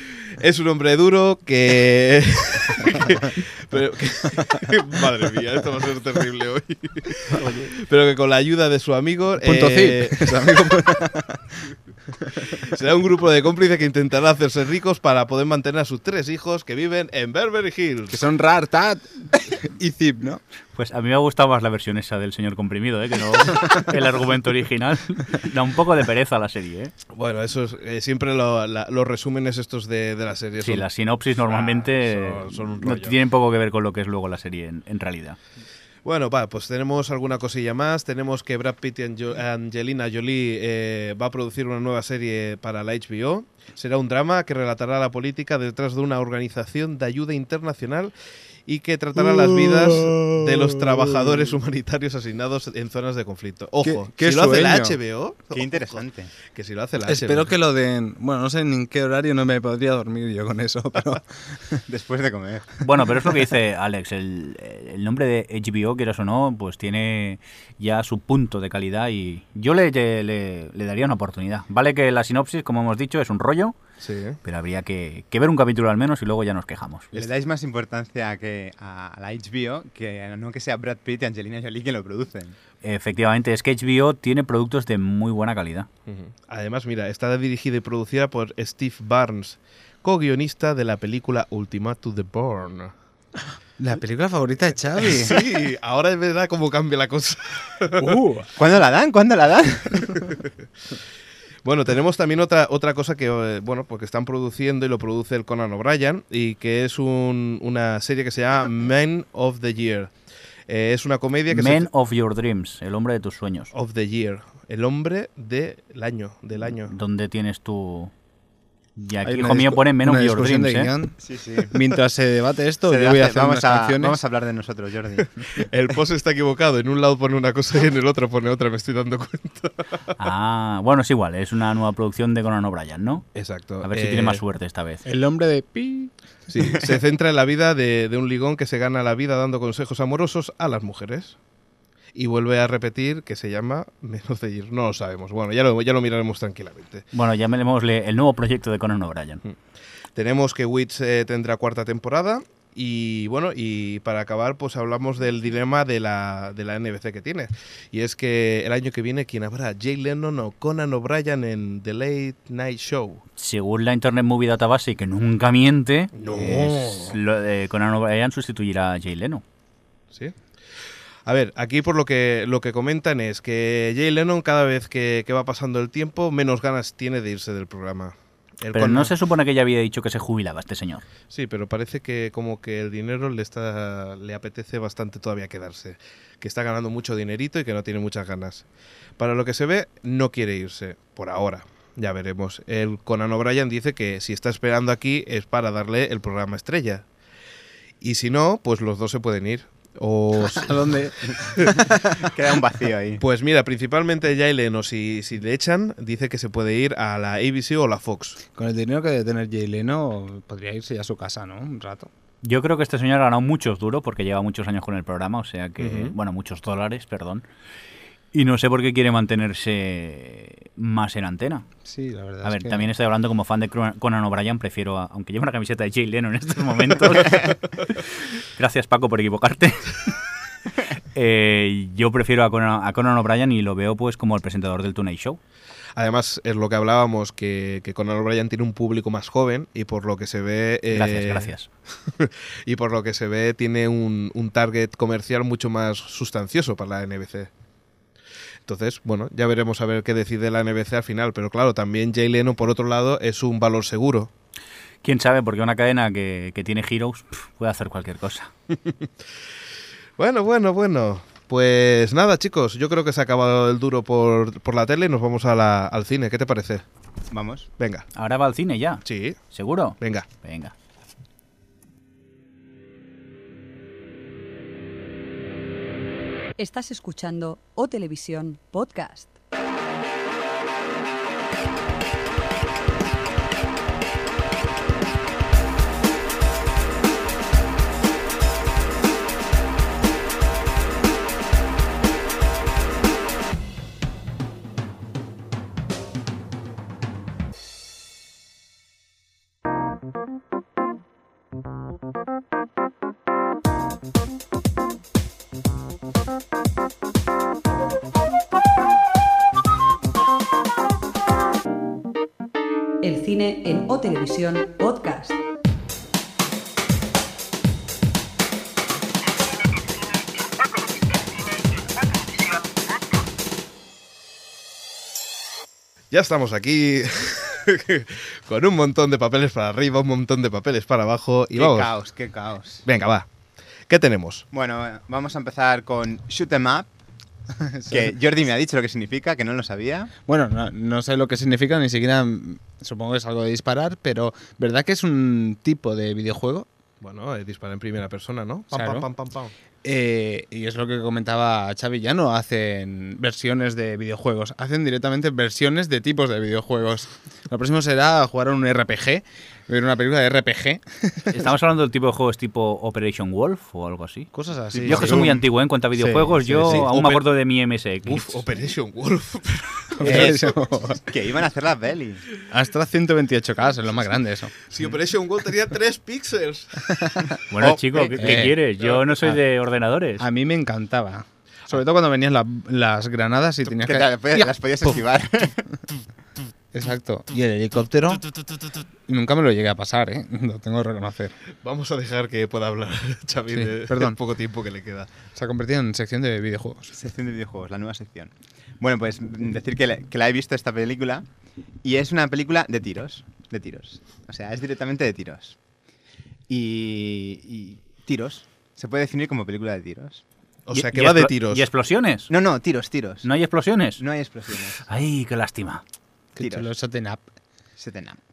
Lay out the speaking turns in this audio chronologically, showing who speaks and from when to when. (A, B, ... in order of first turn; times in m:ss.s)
0:00.2-0:11.0 A
0:09.4-0:11.4 B
0:12.4-0:18.2 A
0:18.1-0:20.4 B
0:20.7-0:26.9 C
0:27.1-0:30.9 A
0:30.6-0:35.4 C
0:31.4-0:33.2 A
0:36.0-0:48.1 A
0:48.7-0:57.5 A
0:49.2-0:51.5 B
0:53.8-0:55.0 B
0:55.5-0:56.3 D
0:57.0-1:01.8 B
1:01.9-1:02.7 D
1:02.8-1:13.8 C
1:14.0-1:14.4 A
1:14.4-1:17.1 C
1:17.1-1:22.6 D
1:22.8-1:25.9 C
1:26.1-1:32.9 A
1:33.8-1:35.4 B
1:35.0-1:38.2 A
1:38.0-1:38.5 B
1:38.6-1:40.2 D
1:41.6-1:50.1 A
1:50.7-1:51.9 A
1:51.5-1:53.7 C
1:53.7-1:56.9 A
1:56.8-1:58.1 C
1:59.0-2:00.9 C
1:59.2-2:01.2 B
2:01.2-2:01.8 D
2:01.7-2:04.2 B
2:02.9-2:05.3 D
2:05.5-2:10.1 A
2:10.2-2:13.3 C
2:13.3-2:14.4 A
2:13.8-2:15.0 C
2:15.0-2:16.1 B
2:16.5-2:21.4 A
2:22.1-2:27.0 A
2:27.1-2:29.4 C
2:30.1-2:43.2 A
2:43.4-2:49.4 C
2:46.1-2:47.2 A
2:51.2-2:59.1 A
2:58.7-3:01.0 C
3:01.3-3:08.6 A
3:09.2-3:17.0 A
3:18.0-3:21.0 A
3:20.4-3:21.9 B
3:21.5-3:21.8 A
3:21.9-3:23.2 D
3:23.2-3:28.4 A
3:28.5-3:32.1 B
3:32.4-3:37.4 C
3:35.8-3:36.1 A
3:38.3-3:41.7 C
3:41.8-3:42.9 B
3:42.4-3:50.1 C
3:51.1-3:55.4 C
3:56.0-4:01.5 A
4:00.9-4:01.7 C
4:02.2-4:07.5 A
4:08.6-4:14.3 A
4:15.0-4:18.5 C
4:20.2-4:26.8 A
4:27.3-4:27.7 D
4:27.8-4:28.0 A
4:28.1-4:30.7 C
4:29.0-4:29.4 A
4:30.0-4:30.3 A
4:36.6-4:39.3 E
5:13.0-5:15.4 E
5:26.1-5:31.9 A
5:31.5-5:32.8 D
5:32.8-5:33.3 A
5:33.9-5:34.4 A
5:34.5-5:36.9 D
5:37.6-5:38.1 B
5:37.9-5:40.1 D
5:40.2-5:46.7 B
5:47.0-5:49.5 A
5:48.7-5:49.1 B
5:49.8-6:01.4 B
6:01.3-6:04.3 C
6:04.3-6:06.9 B
6:04.7-6:05.4 A
6:04.8-6:08.4 C
6:06.6-6:07.2 A
6:08.0-6:10.5 A
6:10.0-6:11.0 B
6:10.0-6:10.5 D
6:11.0-6:12.2 D
6:12.5-6:14.5 B
6:14.7-6:17.1 A
6:16.9-6:17.4 B
6:17.5-6:20.2 C
6:17.6-6:18.1 D
6:18.2-6:18.6 B
6:18.8-6:19.1 A
6:20.2-6:25.0 B
6:23.7-6:25.6 D
6:26.7-6:28.3 B
6:29.1-6:31.3 B
6:31.6-6:35.1 A
6:33.5-6:34.2 B
6:35.3-6:36.9 B
6:36.9-6:41.3 D
6:41.8-6:45.6 D
6:46.5-6:50.2 D
6:50.6-6:51.6 A
6:50.7-6:52.3 C
6:52.3-6:53.3 D
6:53.2-6:54.0 C
6:54.0-6:54.8 D
6:54.8-6:55.8 C
6:56.4-6:57.2 B
6:56.4-6:56.7 D
6:57.8-6:58.2 D